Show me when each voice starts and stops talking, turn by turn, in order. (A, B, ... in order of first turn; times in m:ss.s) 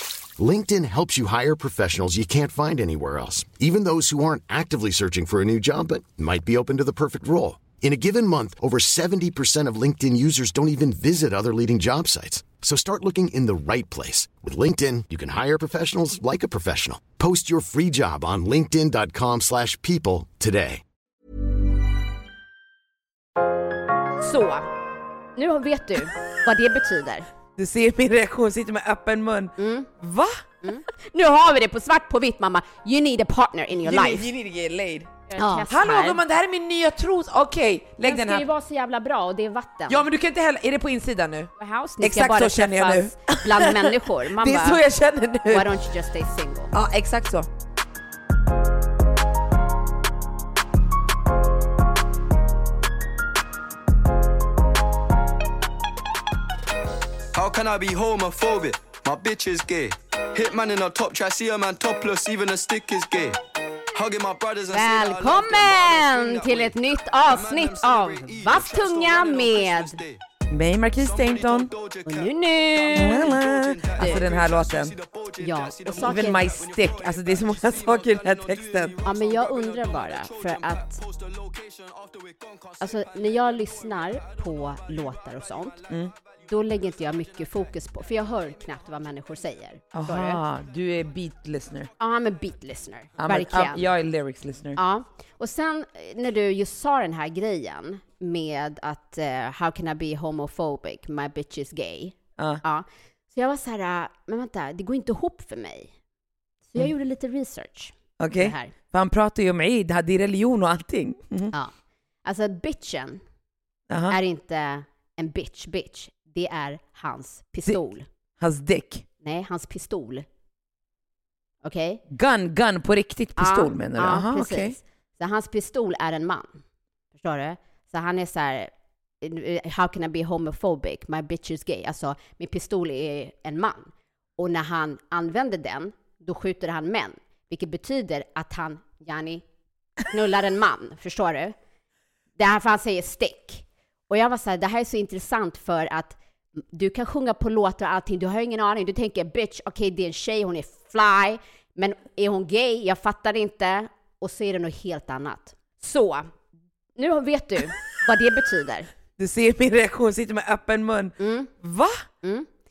0:00.4-0:20.8 A
0:24.2-0:24.7 B
0:25.4-0:27.3 B
0:27.6-0:30.4 C
0:29.6-0:29.9 B
0:30.6-0:34.2 B
0:33.8-0:38.4 C
0:35.3-0:36.2 B
0:38.0-0:40.0 B
0:39.9-0:45.6 C
0:41.6-0:44.8 B
0:45.5-0:46.7 B
0:46.7-0:47.5 C
0:57.3-1:03.4 D
1:03.9-1:10.2 D
1:04.7-1:10.0 B
1:10.5-1:11.7 C
1:11.0-1:28.6 D
1:12.0-1:13.3 B
1:12.9-1:14.9 C
1:14.0-1:14.2 B
1:15.4-1:16.6 B
1:15.9-1:19.0 C
1:19.0-1:21.0 B
1:22.8-1:25.8 B
1:26.5-1:30.4 B
1:29.9-1:31.9 C
1:32.0-1:33.9 B
1:33.2-1:34.8 C
1:34.8-1:45.9 B
1:46.7-1:48.7 B
1:48.2-1:51.5 C
1:52.2-1:53.2 B
1:53.9-1:54.2 C
1:54.1-1:58.0 B
1:58.4-1:59.0 C
1:59.2-2:00.2 B
2:01.6-2:02.0 B
2:02.1-2:04.8 C
2:03.4-2:06.6 B
2:07.2-2:08.7 B
2:09.2-2:19.4 B
2:20.0-2:21.5 B
2:22.4-2:36.3 B
2:37.0-2:38.9 B
2:39.2-2:42.0 C
2:41.2-2:41.5 B
2:42.2-2:42.5 B